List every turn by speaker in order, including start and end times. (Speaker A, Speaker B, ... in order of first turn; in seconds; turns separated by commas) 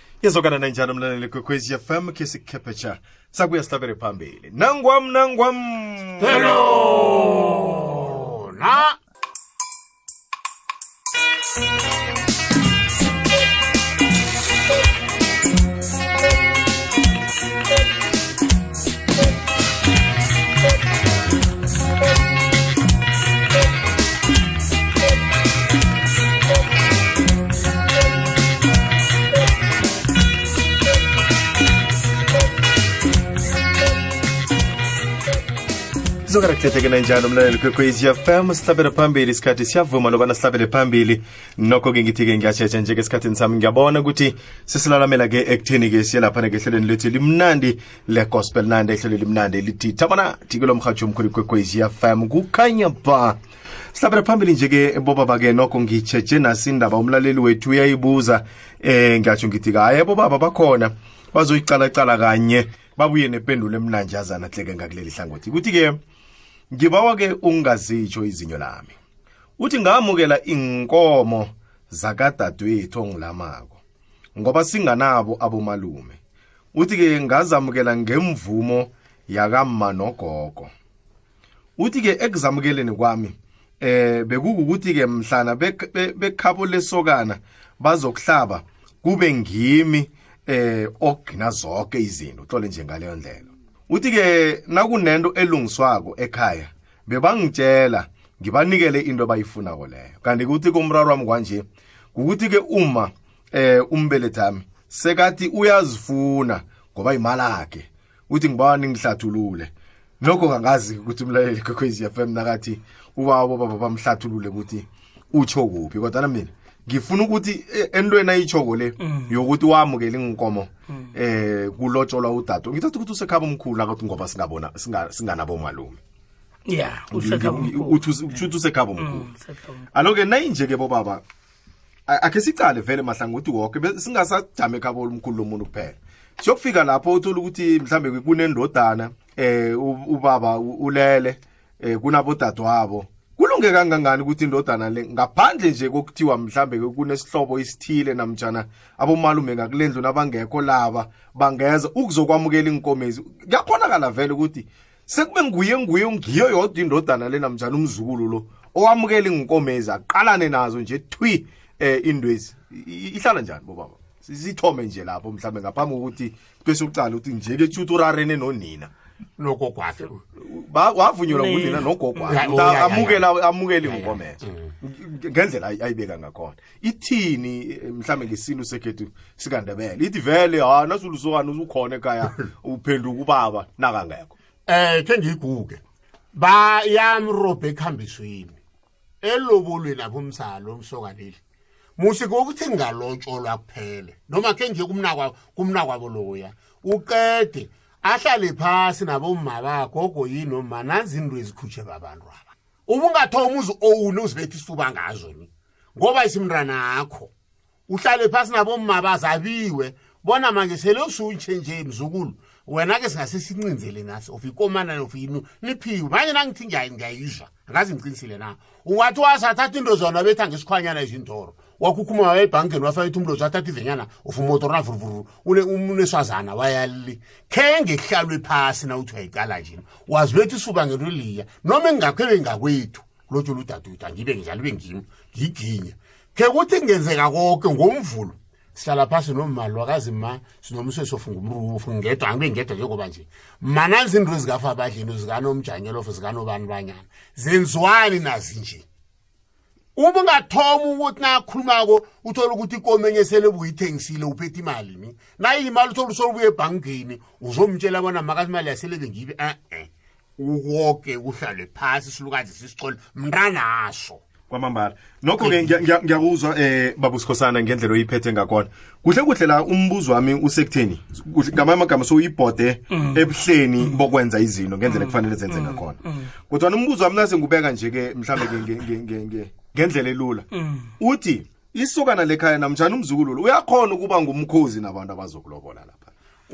Speaker A: 0.2-6.7, Speaker B: 6.2-9.0, Speaker A: 36.3-53.4, Speaker A: 53.9-66.0, Speaker A: 66.7-68.9, Speaker A: 69.6-73.8, Speaker A: 74.3-76.2, Speaker A: 76.7-80.7, Speaker A: 81.8-126.0, Speaker C: 119.0-119.3, Speaker C: 126.7-129.8, Speaker A: 127.1-129.3, Speaker A: 129.9-131.2, Speaker A: 132.1-168.9, Speaker B: 169.4-170.2, Speaker A: 170.4-184.3, Speaker C: 171.3-172.7, Speaker B: 172.3-173.3, Speaker B: 173.8-174.7, Speaker B: 184.7-185.8, Speaker B: 186.3-188.6, Speaker B: 189.2-191.4, Speaker B: 192.0-207.3, Speaker B: 207.9-248.8, Speaker B: 249.9-264.2, Speaker A: 264.5-280.4, Speaker B: 265.4-265.7, Speaker C: 272.9-273.3, Speaker C: 274.8-276.3, Speaker C: 280.5-280.9, Speaker A: 281.0-286.1